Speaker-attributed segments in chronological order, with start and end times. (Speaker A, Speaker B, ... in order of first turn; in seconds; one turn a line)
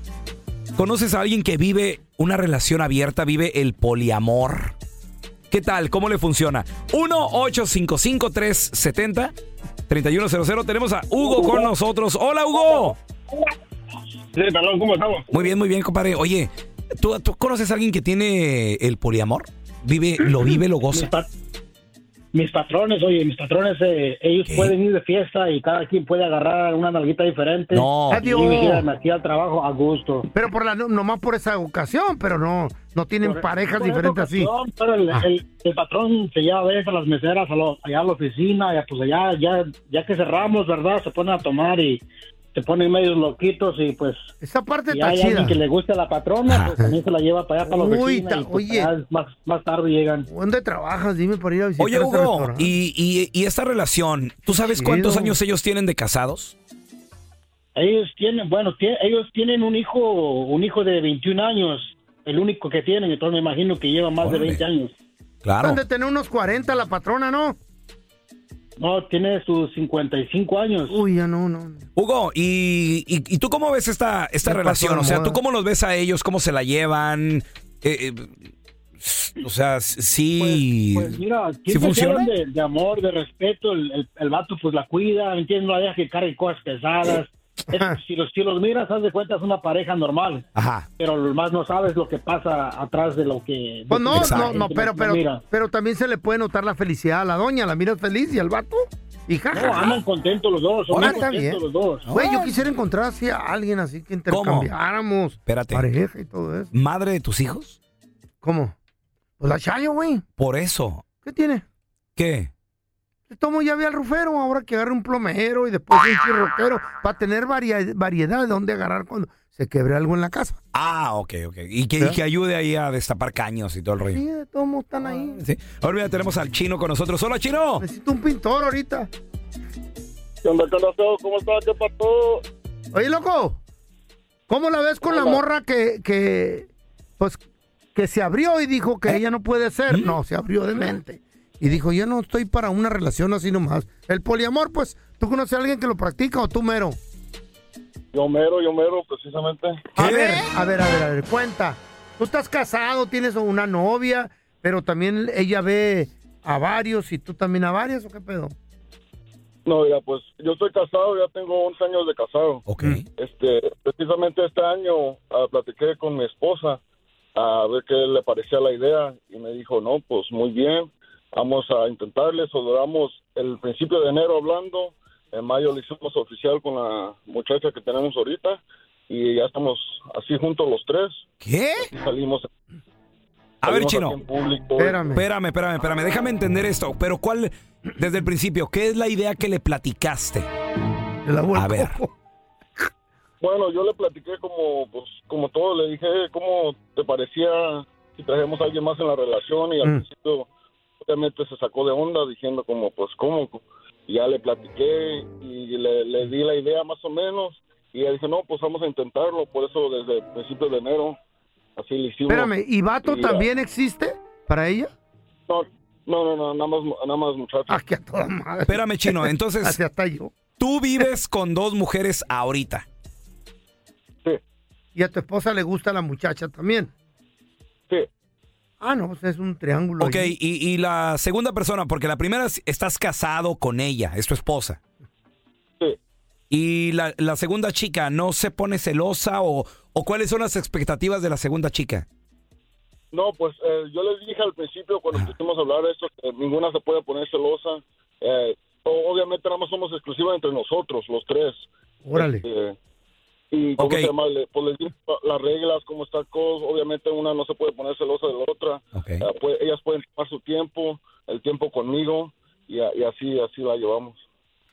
Speaker A: 0.8-4.8
Speaker A: 5.5-9.3
Speaker A: 9.9-13.0
Speaker B: 11.2-11.6
Speaker B: 14.3-15.2
Speaker A: 15.3-21.1
Speaker B: 20.9-21.3
Speaker B: 22.3-30.3
Speaker A: 24.4-24.8
Speaker A: 27.7-28.2
Speaker C: 28.1-28.9
Speaker C: 30.3-34.5
Speaker B: 33.2-42.0
Speaker B: 42.5-44.3
Speaker C: 44.4-45.6
Speaker B: 44.9-50.3
Speaker A: 46.5-46.8
Speaker C: 47.6-48.9
Speaker C: 50.3-52.7
Speaker A: 51.8-56.5
Speaker C: 54.5-55.4
Speaker B: 57.8-64.9
Speaker A: 64.2-64.6
Speaker A: 65.4-65.8
Speaker C: 65.6-67.6
Speaker B: 68.8-71.0
Speaker C: 70.9-71.8
Speaker A: 72.0-78.5
Speaker C: 74.4-75.4
Speaker A: 79.0-82.3
Speaker B: 80.4-90.4
Speaker A: 90.5-90.9
Speaker B: 91.0-95.4
Speaker C: 93.9-100.0
Speaker A: 94.1-94.6
Speaker B: 99.5-102.1
Speaker A: 100.9-101.2
Speaker C: 100.9-106.7
Speaker A: 102.0-102.5
Speaker A: 104.3-104.7
Speaker A: 105.5-105.9
Speaker A: 106.7-107.8
Speaker C: 108.4-108.7
Speaker C: 109.4-110.2
Speaker A: 110.4-111.0
Speaker C: 111.2-111.6
Speaker A: 112.2-112.5
Speaker C: 113.3-120.6
Speaker A: 120.7-124.2
Speaker C: 124.1-125.4
Speaker A: 125.3-127.8
Speaker C: 127.8-129.1
Speaker D: 130.4-132.4
Speaker C: 132.9-133.6
Speaker C: 134.5-136.7
Speaker D: 135.0-135.4
Speaker C: 137.9-147.0
Speaker A: 139.9-140.2
Speaker D: 148.1-149.9
Speaker C: 149.9-158.5
Speaker A: 150.0-150.5
Speaker D: 159.6-162.6
Speaker A: 162.7-163.0
Speaker D: 163.2-166.8
Speaker D: 167.3-181.2
Speaker A: 181.4-181.9
Speaker D: 181.9-182.5
Speaker A: 183.6-184.2
Speaker D: 183.6-185.2
Speaker C: 184.8-185.2
Speaker A: 185.1-190.5
Speaker C: 191.2-192.1
Speaker A: 191.5-192.0
Speaker D: 193.4-200.5
Speaker D: 201.0-211.2
Speaker D: 211.8-212.5
Speaker C: 212.3-214.9
Speaker D: 213.0-213.4
Speaker D: 215.5-217.8
Speaker C: 217.7-220.3
Speaker A: 218.7-219.8
Speaker A: 220.6-222.8
Speaker C: 224.9-226.9
Speaker C: 228.8-230.3
Speaker A: 230.0-234.8
Speaker A: 236.5-242.1
Speaker D: 243.1-252.8
Speaker C: 252.0-252.4
Speaker D: 253.5-264.2
Speaker A: 253.8-254.1
Speaker A: 258.9-259.2